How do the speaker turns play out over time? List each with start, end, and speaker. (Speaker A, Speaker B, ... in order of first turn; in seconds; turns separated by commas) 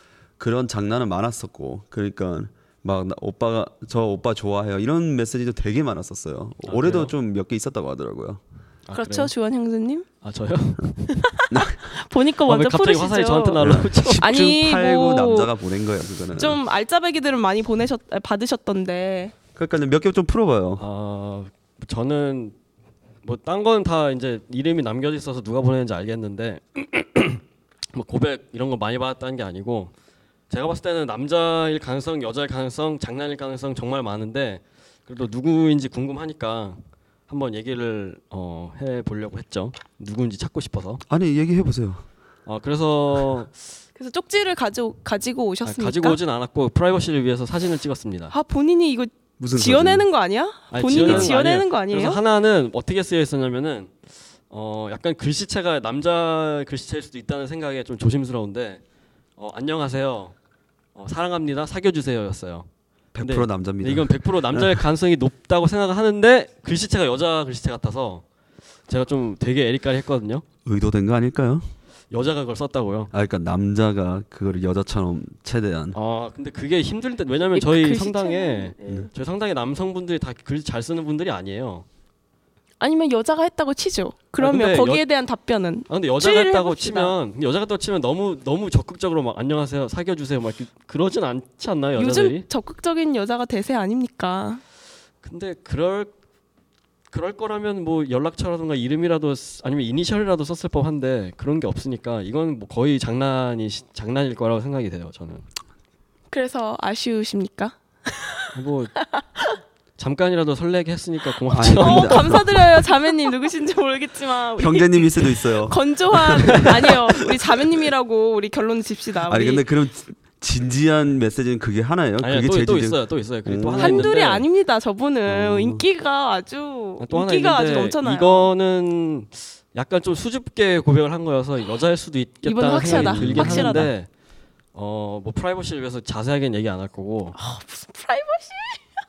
Speaker A: 0.4-8.4, Speaker B: 6.7-7.1, Speaker B: 8.9-9.3, Speaker C: 8.9-10.1, Speaker B: 10.2-11.3, Speaker C: 11.4-15.5, Speaker B: 12.4-14.2, Speaker A: 13.6-16.6, Speaker C: 16.3-19.3, Speaker A: 19.6-20.8, Speaker B: 20.8-22.5, Speaker B: 23.2-27.4, Speaker B: 27.9-29.9, Speaker B: 30.5-41.0, Speaker A: 41.1-42.0, Speaker B: 42.5-43.5, Speaker C: 44.0-46.2, Speaker B: 45.6-48.3, Speaker C: 48.3-52.2, Speaker A: 49.4-50.1, Speaker B: 50.7-53.9, Speaker A: 50.9-51.3, Speaker B: 54.5-58.8, Speaker B: 59.4-60.3, Speaker B: 60.9-62.7, Speaker A: 63.1-64.8, Speaker B: 63.2-68.2, Speaker B: 68.9-70.4, Speaker A: 70.6-71.7, Speaker B: 72.1-73.1, Speaker A: 73.1-76.0, Speaker B: 75.9-81.8, Speaker C: 77.5-78.7, Speaker C: 82.8-87.1, Speaker B: 84.4-85.0, Speaker B: 85.9-92.5, Speaker C: 92.0-94.6, Speaker B: 95.2-96.1, Speaker B: 97.1-105.4, Speaker C: 106.3-108.3, Speaker B: 108.5-109.0, Speaker B: 110.0-112.4, Speaker A: 111.5-112.6, Speaker C: 111.7-119.6, Speaker A: 114.6-117.6, Speaker A: 119.3-124.1, Speaker B: 122.2-124.5, Speaker C: 123.8-128.5, Speaker A: 125.3-125.8, Speaker B: 127.0-134.1, Speaker C: 132.4-133.9, Speaker A: 132.8-133.9, Speaker B: 134.7-137.3, Speaker C: 137.3-138.8